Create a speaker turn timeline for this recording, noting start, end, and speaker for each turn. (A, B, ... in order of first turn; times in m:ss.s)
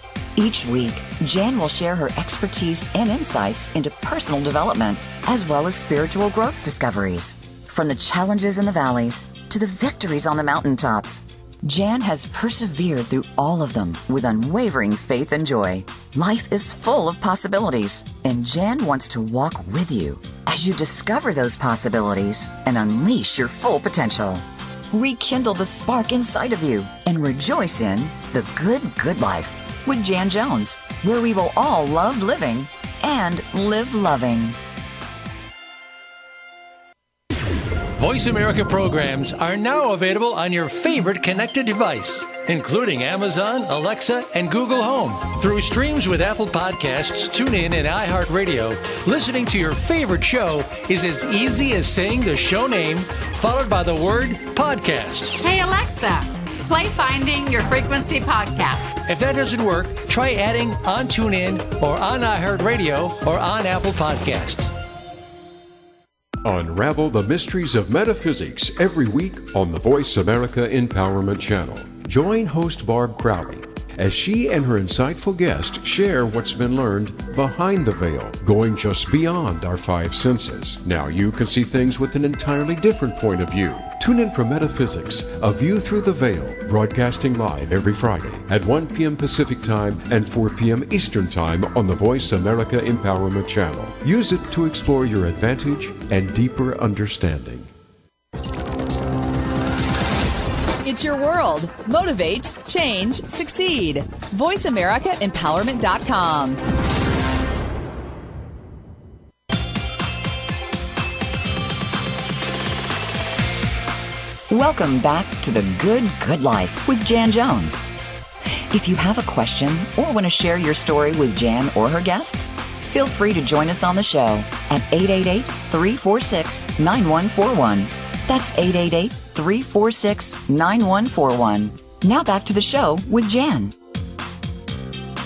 0:00.3-0:34.6 A
0:38.0-0:55.4 B
0:55.3-0:59.0 C
0:59.1-1:04.7 B
1:06.4-1:37.7 D
1:40.8-1:46.6 E
1:54.5-1:57.8 A
1:58.7-2:13.7 A